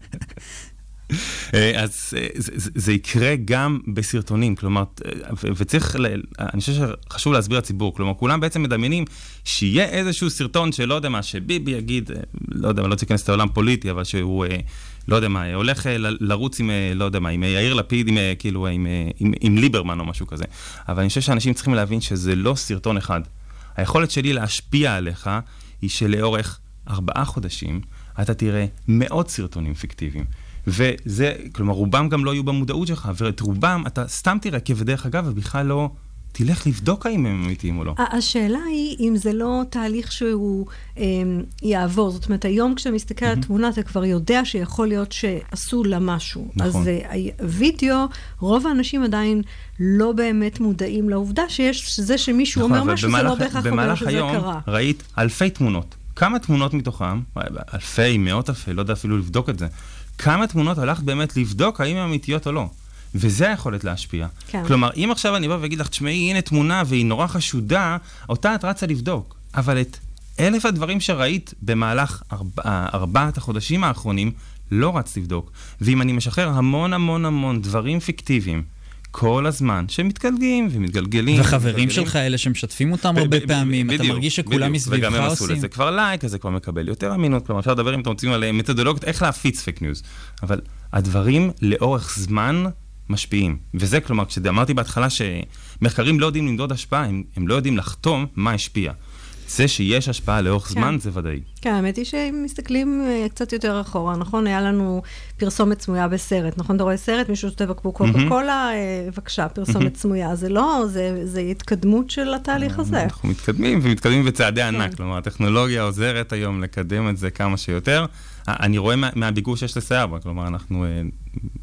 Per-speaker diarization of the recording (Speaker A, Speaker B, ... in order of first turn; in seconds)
Speaker A: 1.1-38.0, 46.6-46.9, 52.6-82.1, 83.1-99.0, 99.5-101.5, 108.0-108.3, 112.5-121.4
Speaker B: 38.0-54.6, 101.6-113.1, 114.7-115.0
Speaker C: 81.3-85.7